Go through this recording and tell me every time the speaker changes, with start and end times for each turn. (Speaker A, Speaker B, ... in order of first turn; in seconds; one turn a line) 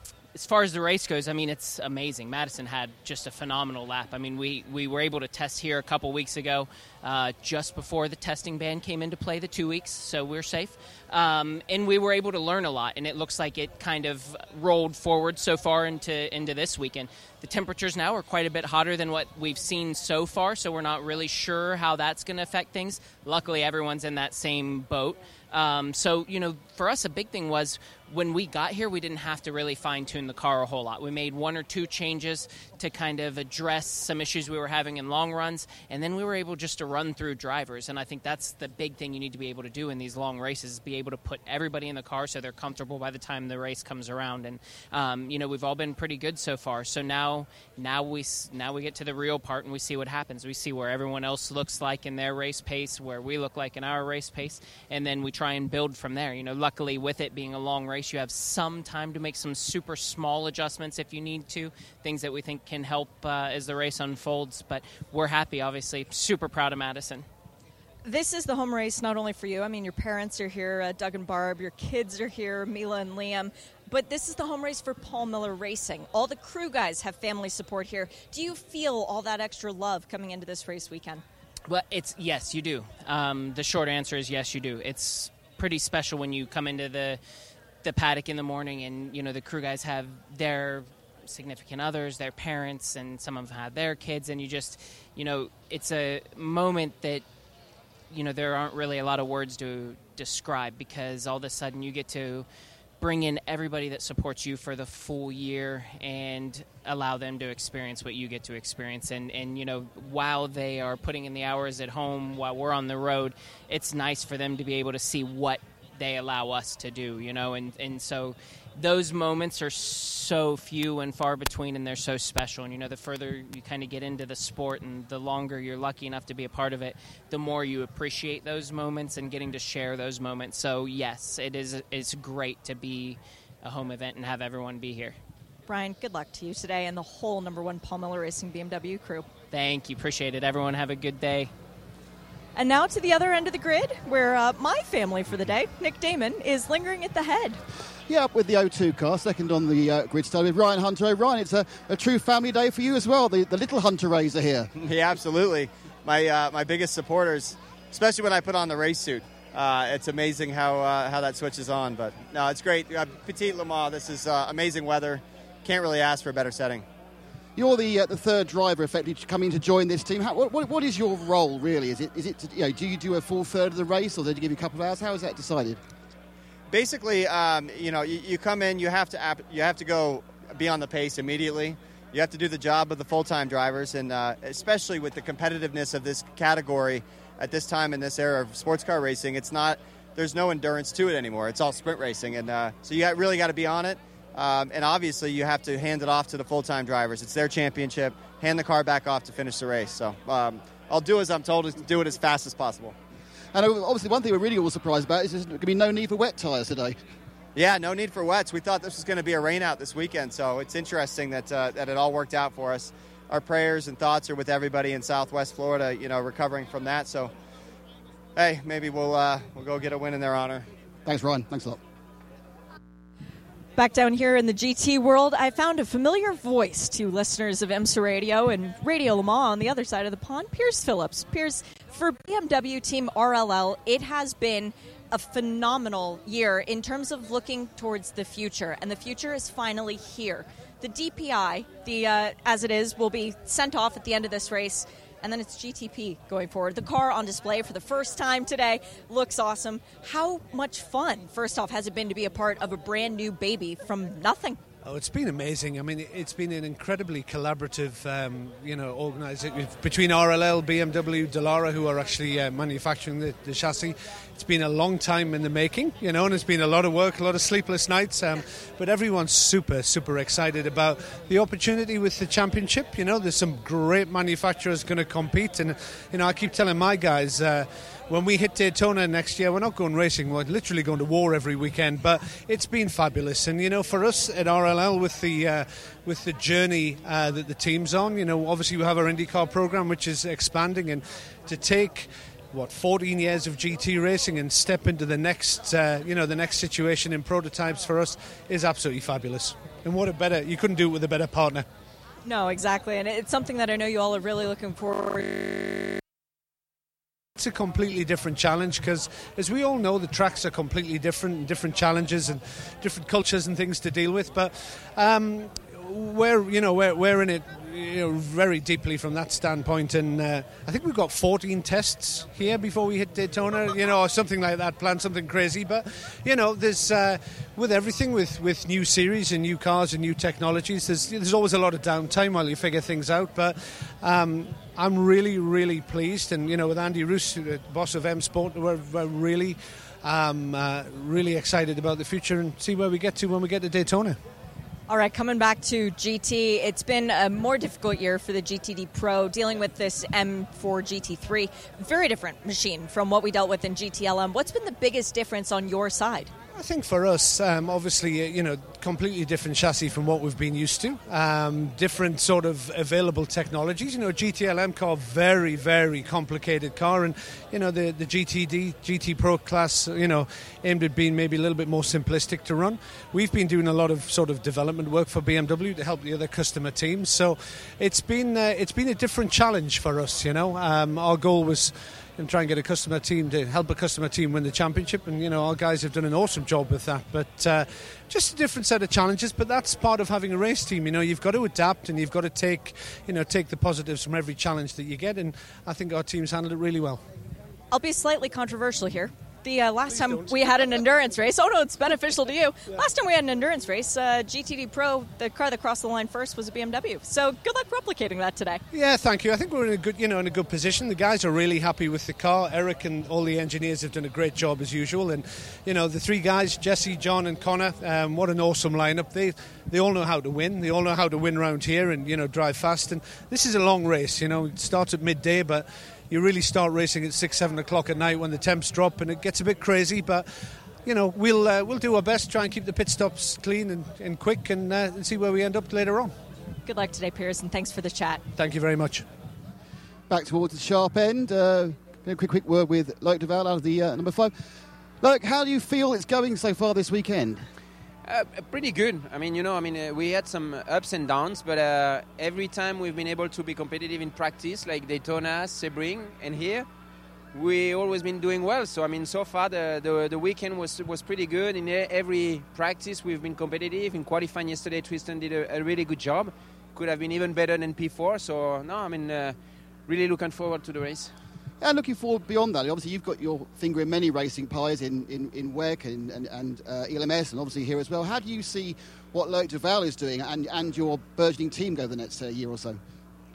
Speaker A: 0.3-67.2
Speaker B: 68.0-81.2
Speaker A: 81.7-87.2
Speaker A: 87.8-97.2
Speaker A: 98.1-102.5
Speaker A: 103.0-135.2
Speaker B: 135.7-139.3
Speaker A: 139.5-141.5
Speaker B: 142.6-147.6
Speaker C: 148.1-154.7
Speaker D: 154.8-166.8
Speaker C: 167.6-175.8
Speaker D: 176.7-202.9
Speaker C: 203.5-207.0
Speaker D: 207.6-217.3
Speaker D: 218.3-220.7
Speaker C: 221.1-221.8
Speaker B: 223.8-254.6
Speaker E: 254.8-301.6
Speaker B: 302.2-306.0
Speaker E: 307.4-344.2
Speaker B: 344.9-356.3
Speaker E: 356.5-397.0
Speaker B: 397.7-408.6
Speaker E: 399.9-400.4
Speaker E: 408.7-436.1
Speaker B: 436.6-438.2
Speaker E: 438.3-439.1
Speaker C: 440.1-444.3
Speaker C: 445.0-447.4
Speaker F: 448.0-456.7
Speaker F: 457.3-471.1
Speaker C: 471.6-482.8